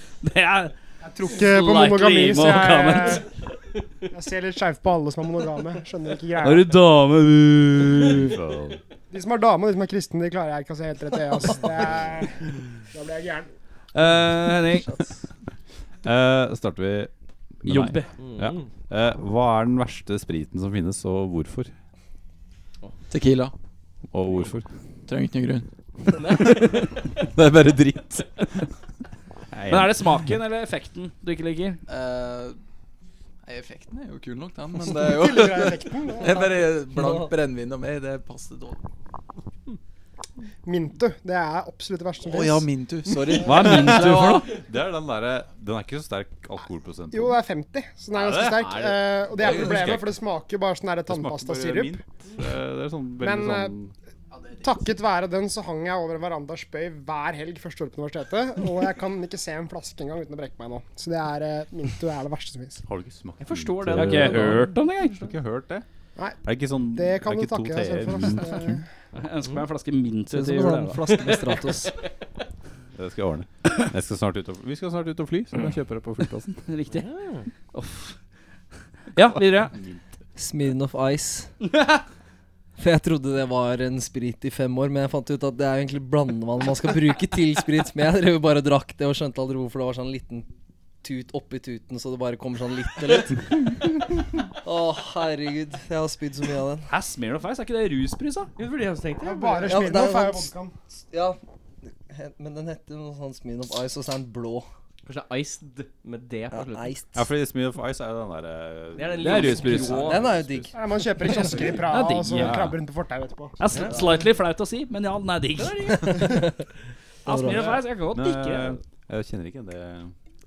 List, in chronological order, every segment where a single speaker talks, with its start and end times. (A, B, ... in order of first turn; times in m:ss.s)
0:00.2-0:00.7 A
0:01.0-0:03.3 B
0:01.2-0:03.2 A
0:04.1-0:06.7 B
0:06.4-0:08.4 A
0:08.0-0:08.8 C
0:09.1-0:13.5 B
0:13.9-0:14.9 A
0:16.0-0:17.1 C
0:17.6-0:21.7 C
0:17.6-0:18.1 A
0:18.2-0:18.7 D
0:23.1-0:23.5 E
0:24.1-0:24.7 C
0:25.1-0:28.5 E
0:26.2-0:26.7 D
0:29.5-0:30.1 C
0:29.6-0:31.8 A
0:31.9-0:32.6 E
0:33.4-0:38.8 E
0:34.9-0:36.5 B
0:37.0-0:37.3 F
0:40.6-0:42.7 B
0:42.2-0:44.6 E
0:43.4-0:44.5 A
0:43.6-0:47.4 C
0:47.1-0:52.0 B
0:48.1-0:48.8 C
0:49.4-0:50.2 C
0:51.1-0:53.9 C
0:53.2-0:53.7 B
0:54.4-0:54.8 E
0:54.6-1:02.8 B
1:02.9-1:05.9 C
1:03.4-1:04.7 D
1:03.9-1:05.3 A
1:06.4-1:08.8 C
1:06.9-1:08.8 B
1:09.2-1:11.4 A
1:10.3-1:11.9 F
1:13.0-1:16.6 C
1:16.7-1:17.1 A
1:16.9-1:17.5 D
1:17.7-1:18.2 A
1:19.2-1:19.8 A
1:19.7-1:20.0 C
1:20.4-1:21.5 F
1:21.7-1:22.0 A
1:22.8-1:30.5 F
1:31.0-1:34.1 F
1:34.6-1:36.9 F
1:36.9-1:38.5 A
1:38.6-1:39.9 D
1:39.2-1:40.7 B
1:39.7-1:40.5 F
1:41.1-1:44.7 F
1:45.0-1:46.9 D
1:46.5-1:47.3 F
1:47.2-1:50.7 C
1:49.0-1:50.3 D
1:49.2-1:50.2 A
1:50.0-1:50.8 F
1:50.7-1:53.6 B
1:51.3-1:51.7 D
1:51.8-1:52.8 A
1:53.6-1:56.4 A
1:53.7-1:54.2 F
1:55.6-1:56.3 D
1:56.1-1:56.6 F
1:57.3-1:57.8 F
1:57.3-1:58.8 A
1:57.6-1:57.8 D
1:58.1-2:00.1 C